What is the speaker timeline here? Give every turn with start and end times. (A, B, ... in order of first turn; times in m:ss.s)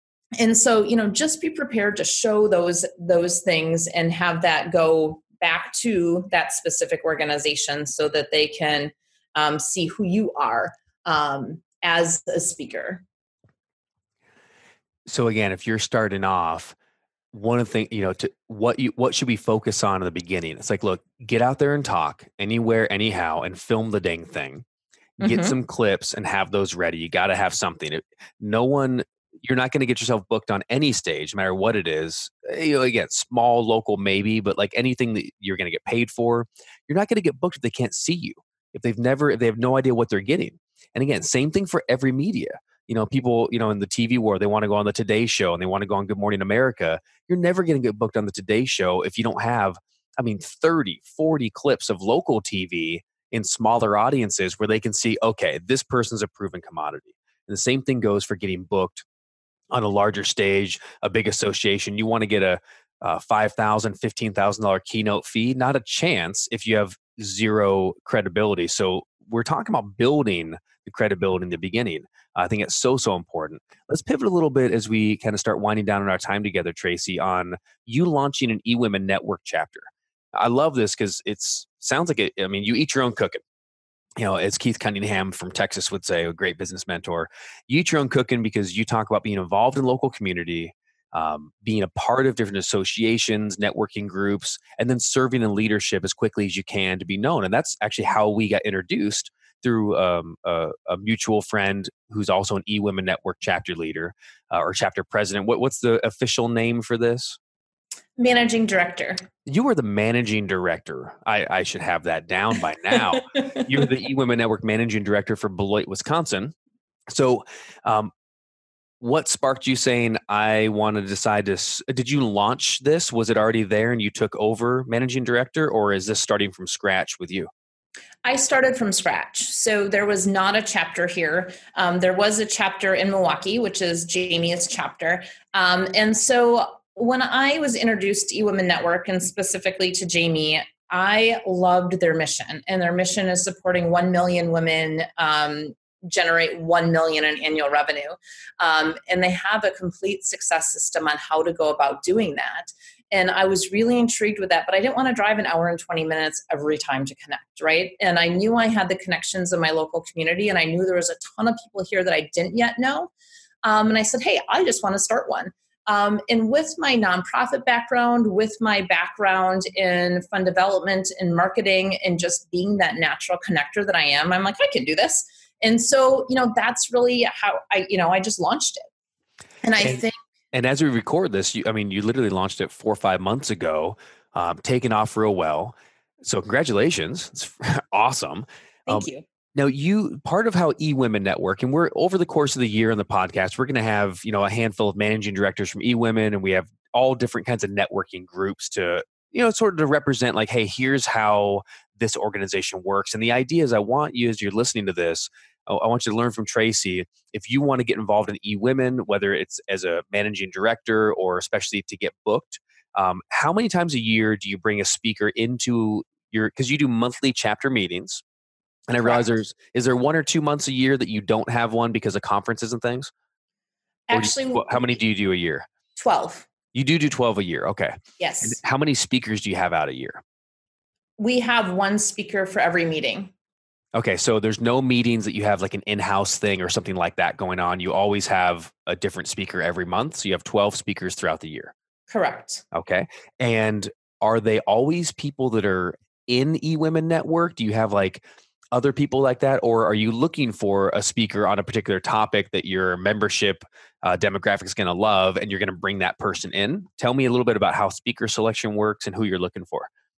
0:00.4-0:13.0 A
0:15.0-0:16.7 B
0:17.3-0:24.6 B
0:25.2-0:25.5 A
0:25.2-0:59.0 B
0:59.7-1:23.4 B
1:24.2-1:47.4 B
1:48.2-1:49.2 A
1:49.4-1:56.5 B
1:57.1-1:58.1 B
1:59.0-2:07.5 B
2:08.2-2:43.1 A
2:43.6-2:58.8 A
2:59.6-3:00.2 A
2:59.8-3:38.2 B
3:08.9-3:09.2 A
3:38.9-3:43.1 B
3:39.0-3:39.3 A
3:44.1-3:45.0 A
3:44.1-3:45.6 B
3:46.0-3:46.4 A
3:46.7-3:50.2 B
3:48.2-3:48.6 A
3:51.2-3:53.3 A
3:53.9-4:01.7 B
4:02.1-4:02.6 A
4:02.7-4:19.9 B